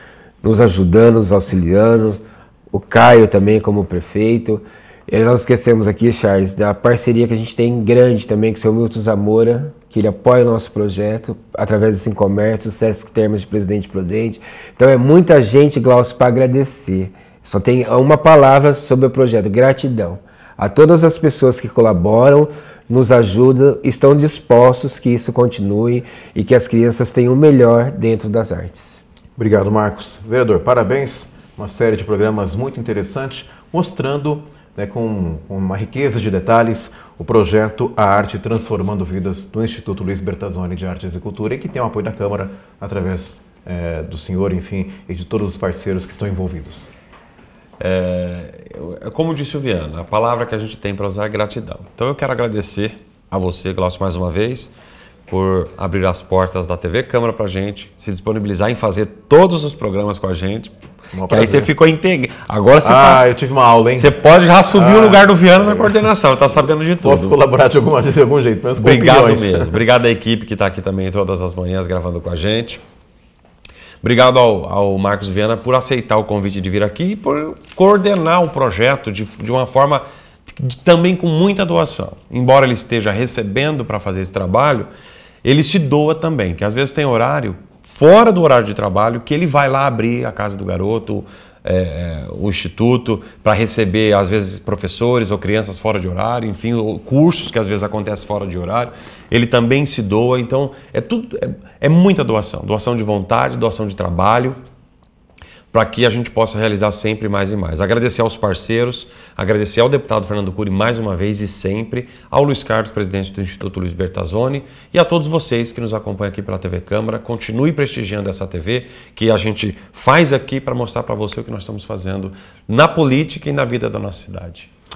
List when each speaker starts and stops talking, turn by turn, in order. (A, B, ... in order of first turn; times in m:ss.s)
0:00.4-0:29.0 A
0:29.4-0:46.9 B
0:47.8-0:54.7 C
0:55.3-1:00.8 C
1:01.1-1:01.7 B
1:01.3-1:03.3 C
1:02.8-1:04.1 B
1:04.0-1:07.4 C
1:04.7-1:06.0 B
1:07.0-1:09.8 B
1:08.8-1:12.8 C
1:14.0-1:24.9 C
1:25.4-1:44.6 C
1:45.7-2:04.7 C